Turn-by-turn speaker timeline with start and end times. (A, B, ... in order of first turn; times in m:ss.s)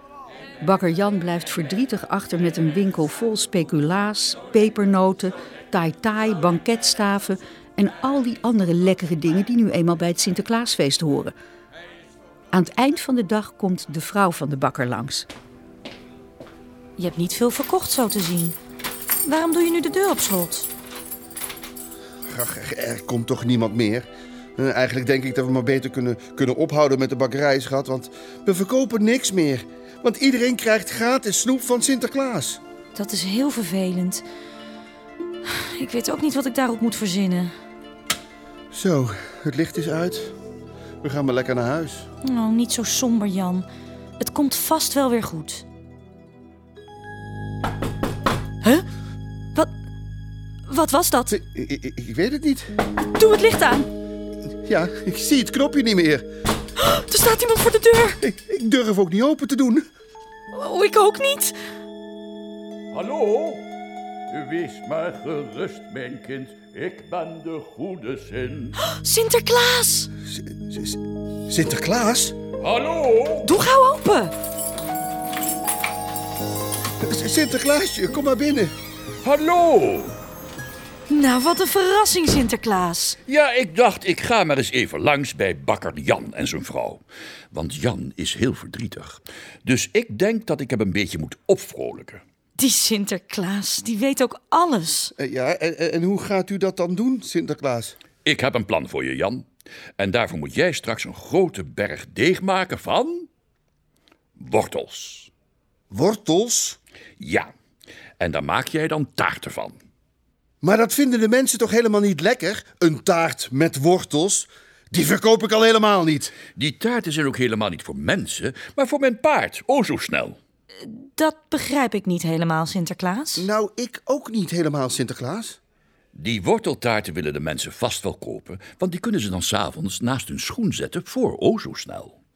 0:00.6-0:11.3 A
0:12.5-0:15.3 A
0:17.0-0:18.6 B
0:19.2-0:20.7 B
0:22.3-0:32.6 C
0:32.9-0:34.2 B
0:35.4-0:37.5 B
0:38.7-0:40.3 C
0:41.0-0:42.1 C
0:42.2-0:43.6 B
0:44.2-0:45.6 B
0:50.7-0:51.3 B
0:51.3-0:52.7 C
0:53.2-0:53.9 B
0:54.6-0:56.2 C
0:56.8-0:58.2 B
0:58.2-0:59.8 C
1:00.5-1:01.5 B
1:02.9-1:03.6 D
1:04.3-1:08.7 D
1:08.8-1:10.1 B
1:10.3-1:12.4 C
1:12.6-1:13.6 D
1:13.4-1:14.3 B
1:17.0-1:18.7 C
1:19.2-1:20.1 D
1:21.1-1:23.2 B
1:23.2-1:32.2 D
1:32.6-1:35.1 B
1:35.2-1:38.0 C
1:38.2-1:39.4 D
1:40.0-1:43.3 D
1:44.4-1:45.3 D
1:45.9-1:46.8 C
1:47.2-1:47.5 D
1:48.2-1:49.8 D
1:50.6-1:56.3 C
1:56.5-2:00.4 D
2:00.8-2:03.5 B
2:03.4-2:05.6 C
2:06.1-2:12.2 D